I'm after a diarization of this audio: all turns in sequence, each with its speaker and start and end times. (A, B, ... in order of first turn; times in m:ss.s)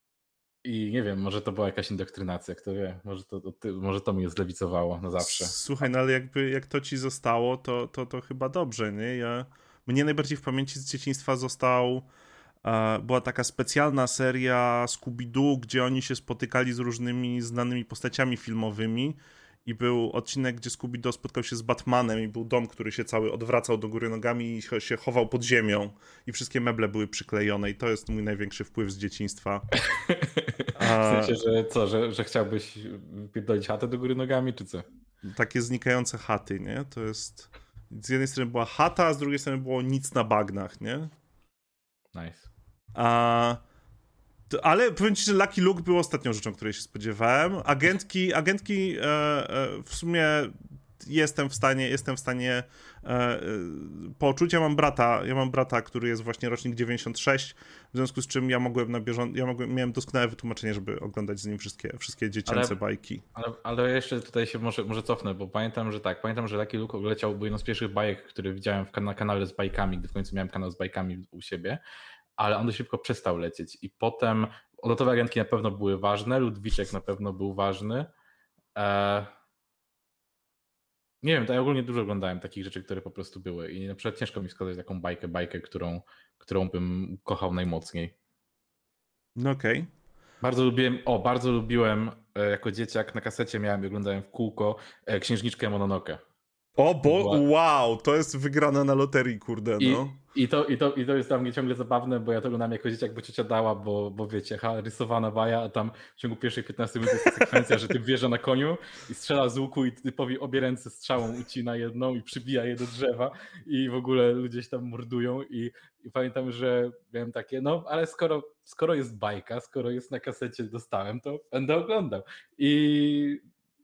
0:00.6-0:05.6 A
0:05.2-0:12.1 B
0:12.6-0:29.7 B
0:29.9-0:34.8 A
0:30.8-0:31.4 B
0:35.3-0:41.1 B
0:42.1-0:42.5 A
0:43.0-0:43.6 B
0:44.5-1:03.2 B
1:02.5-1:02.8 A
1:03.4-1:11.8 A
1:12.4-1:18.1 A
1:18.8-1:19.3 A
1:21.2-1:28.1 A
1:29.4-1:29.9 B
1:30.4-1:36.2 A
1:36.8-1:40.2 B
1:37.0-1:37.4 A
1:39.8-2:03.4 A
1:47.2-1:47.7 B